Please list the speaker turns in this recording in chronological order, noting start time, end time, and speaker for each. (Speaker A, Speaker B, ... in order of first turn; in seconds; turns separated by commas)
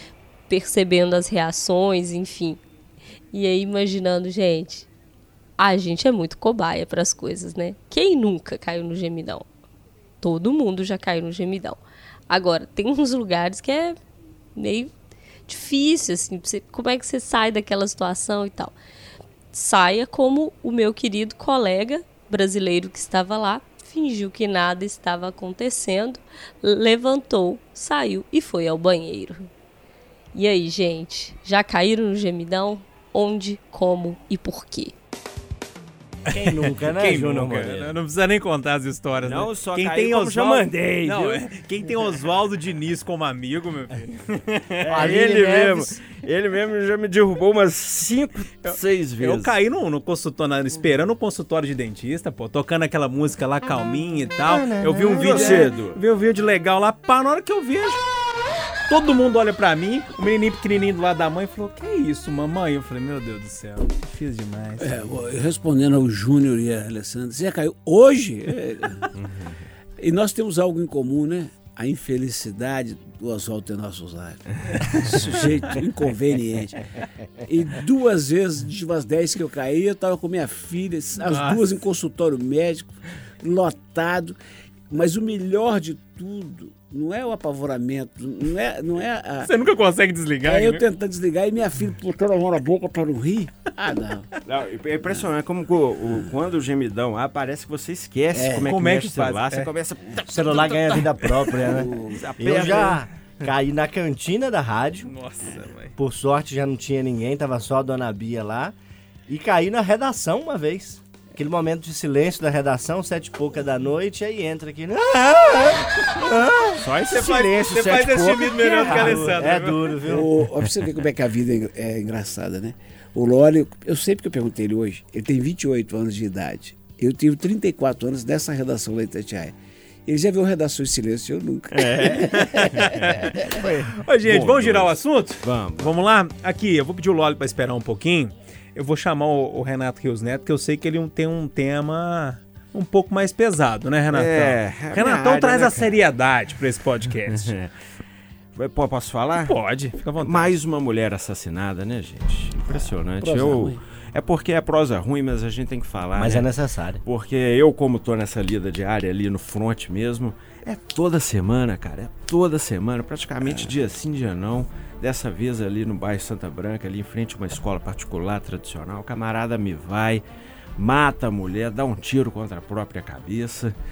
Speaker A: 0.5-2.6, Speaker A: 3.3-4.9, Speaker A: 5.6-9.5, Speaker A: 10.2-13.9, Speaker A: 14.6-14.9, Speaker A: 15.5-18.7, Speaker A: 19.5-29.5, Speaker A: 30.3-34.9, Speaker B: 36.3-45.0, Speaker C: 36.3-37.9, Speaker D: 39.2-41.5, Speaker D: 44.8-49.5, Speaker C: 44.9-46.0, Speaker B: 48.6-58.0, Speaker C: 54.5-55.7, Speaker D: 55.1-56.0, Speaker B: 58.9-65.0, Speaker E: 64.8-69.1, Speaker D: 69.2-69.5, Speaker E: 70.0-76.9, Speaker E: 77.4-84.4, Speaker B: 81.2-81.6, Speaker E: 84.9-89.5, Speaker B: 89.4-90.8, Speaker E: 90.5-94.3, Speaker D: 94.4-103.0, Speaker E: 98.3-98.7, Speaker B: 98.7-99.7, Speaker C: 100.3-105.1, Speaker E: 101.6-102.2, Speaker B: 105.0-105.9, Speaker C: 105.9-108.7, Speaker C: 109.3-116.8, Speaker D: 116.8-119.3, Speaker B: 117.1-119.8, Speaker C: 118.6-120.3, Speaker E: 120.1-129.5, Speaker E: 130.1-133.2, Speaker D: 131.7-135.9, Speaker B: 132.1-147.5, Speaker D: 144.1-146.0, Speaker D: 147.3-147.7, Speaker D: 148.6-149.5, Speaker B: 149.4-150.6, Speaker D: 150.2-156.5, Speaker E: 152.7-153.8, Speaker C: 156.1-157.0, Speaker D: 157.0-170.2, Speaker E: 163.4-163.7, Speaker D: 170.8-173.7